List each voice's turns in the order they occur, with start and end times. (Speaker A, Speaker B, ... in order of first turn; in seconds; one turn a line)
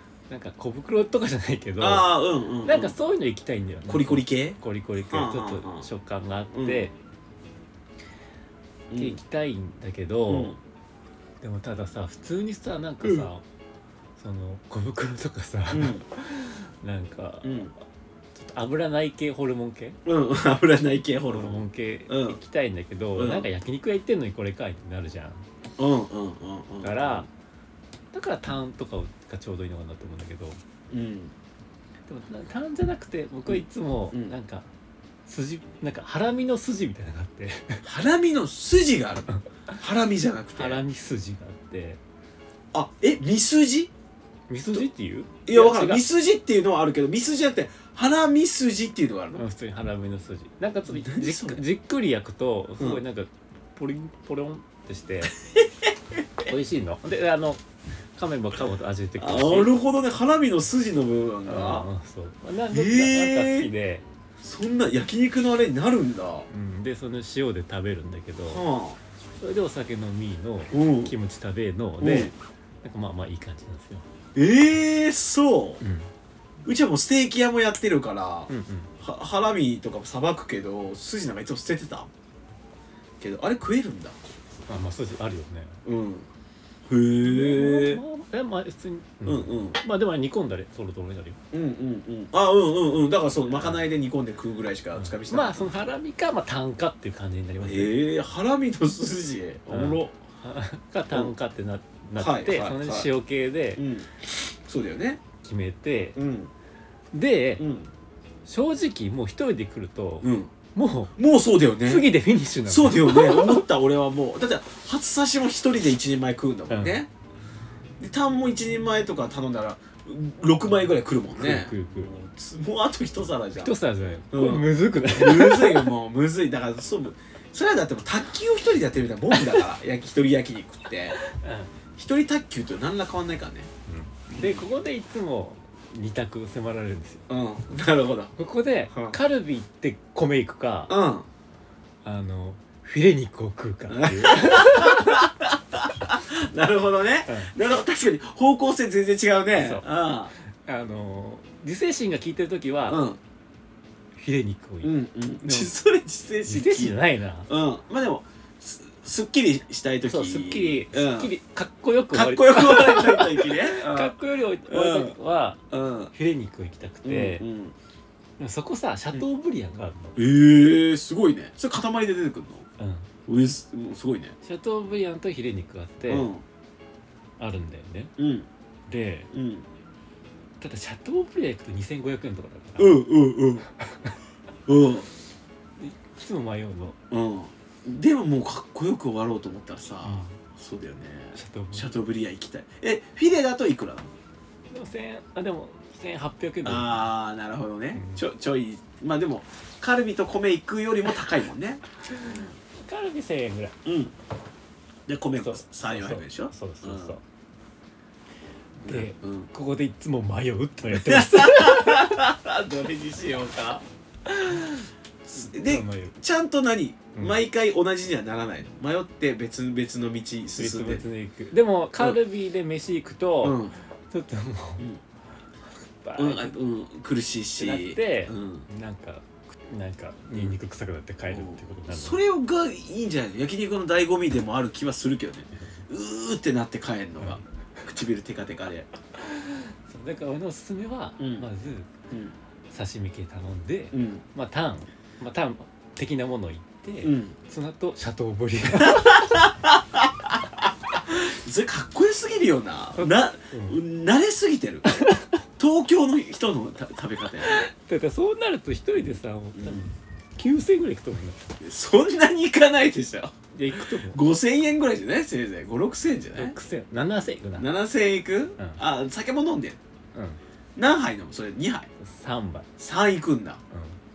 Speaker A: 0.3-6.9
Speaker B: 1.8-3.0
Speaker B: 3.9-5.9
Speaker B: 6.5-6.9
Speaker B: 8.9-9.2
Speaker A: 8.9-10.6
Speaker B: 10.3-10.6
Speaker A: 11.4-13.4
Speaker A: 14.2-17.7
Speaker B: 15.7-16.1
Speaker B: 17.4-17.7
Speaker A: 18.4-20.0
Speaker B: 20.1-22.4
Speaker A: 21.3-25.4
Speaker B: 23.2-23.5
Speaker B: 25.8-27.3
Speaker A: 26.8-27.3
Speaker A: 28.1-30.6
Speaker B: 30.9-31.3
Speaker A: 32.1-34.7
Speaker A: 35.3-37.9
Speaker B: 37.8-39.3
Speaker A: 39.3-39.8
Speaker B: 39.8-40.8
Speaker A: 40.6-42.0
Speaker B: 42.7-43.9
Speaker A: 44.5-46.0
Speaker B: 45.5-49.4
Speaker A: 49.3-55.3
Speaker B: 50.9-51.6
Speaker B: 55.5-56.5
Speaker A: 56.5-57.6
Speaker A: 58.2-59.8
Speaker B: 59.2-61.9
Speaker A: 61.5-64.0
Speaker B: 62.7-63.7
Speaker B: 64.4-66.5
Speaker A: 66.5-68.7
Speaker B: 68.5-69.0
Speaker A: 69.4-74.0
Speaker B: 70.7-71.1
Speaker B: 72.0-72.3
Speaker B: 74.3-75.8
Speaker A: 75.8-76.1
Speaker B: 76.7-78.5
Speaker A: 78.5-78.9
Speaker B: 79.0-82.1
Speaker B: 83.2-84.3
Speaker A: 84.7-85.8
Speaker B: 85.8-86.3
Speaker B: 86.9-88.0
Speaker A: 87.2-91.4
Speaker B: 89.3-89.8
Speaker B: 91.5-95.7
Speaker A: 93.5-93.9
Speaker A: 95.0-98.0
Speaker B: 97.6-100.2
Speaker A: 99.7-103.8
Speaker B: 102.2-103.1
Speaker B: 103.8-104.1
Speaker B: 104.7-105.2
Speaker A: 105.4-106.2
Speaker B: 106.2-106.5
Speaker A: 107.1-107.7
Speaker B: 107.6-107.9
Speaker A: 108.5-111.2
Speaker B: 110.2-110.5
Speaker B: 111.2-112.1
Speaker A: 111.8-113.6
Speaker B: 112.7-117.1
Speaker A: 116.7-117.0
Speaker B: 118.0-123.7
Speaker A: 121.3-122.1
Speaker A: 123.6-125.9
Speaker B: 124.3-131.2
Speaker A: 129.3-129.6
Speaker A: 131.2-131.7
Speaker B: 132.0-133.7
Speaker A: 133.9-137.2
Speaker B: 134.3-134.6
Speaker B: 137.3-138.3
Speaker A: 138.4-140.9
Speaker B: 138.9-139.2
Speaker B: 140.9-141.3
Speaker A: 142.0-145.3
Speaker B: 143.9-150.3
Speaker A: 147.3-147.5
Speaker A: 149.6-153.0
Speaker B: 152.9-153.2
Speaker A: 154.2-155.7
Speaker B: 154.8-161.3
Speaker A: 156.5-157.5
Speaker A: 160.1-167.4
Speaker B: 162.1-165.2
Speaker B: 165.7-166.1
Speaker B: 167.0-167.8
Speaker A: 168.4-170.2
Speaker B: 170.2-172.7
Speaker A: 172.8-173.1
Speaker B: 173.3-174.3
Speaker A: 174.4-176.3
Speaker B: 176.1-176.4
Speaker A: 177.4-178.1
Speaker B: 178.2-178.5
Speaker A: 178.9-179.3
Speaker B: 179.3-179.7
Speaker A: 180.6-183.0
Speaker B: 182.8-183.7
Speaker A: 183.8-184.2
Speaker B: 184.7-185.1
Speaker A: 185.8-187.0
Speaker B: 187.1-194.1
Speaker A: 190.0-190.4
Speaker A: 191.3-191.9
Speaker A: 194.7-197.0
Speaker B: 196.7-202.6
Speaker A: 197.9-198.2
Speaker A: 202.1-203.8
Speaker B: 203.8-204.1
Speaker B: 205.1-207.2
Speaker A: 205.4-207.2
Speaker B: 208.8-209.5
Speaker A: 208.8-212.1
Speaker B: 210.9-213.8
Speaker A: 214.3-216.2
Speaker B: 215.3-221.1
Speaker A: 217.2-217.4
Speaker A: 220.6-224.9
Speaker B: 223.4-223.8
Speaker A: 226.0-226.6
Speaker B: 226.2-228.7
Speaker A: 227.6-232.2
Speaker B: 231.3-238.9
Speaker A: 235.6-235.8
Speaker A: 239.2-241.9
Speaker B: 241.2-241.5
Speaker A: 242.7-249.4
Speaker B: 243.9-244.2
Speaker B: 247.0-247.3
Speaker B: 248.7-255.1
Speaker A: 252.9-253.8
Speaker A: 254.9-255.4
Speaker B: 255.6-257.7
Speaker A: 257.4-261.4
Speaker B: 259.6-259.9
Speaker B: 261.6-263.4
Speaker A: 263.5-264.2
Speaker B: 264.1-266.6
Speaker A: 266.4-267.7
Speaker B: 267.6-269.8
Speaker B: 270.8-271.9
Speaker A: 272.0-272.7
Speaker B: 272.8-273.6
Speaker A: 273.7-274.0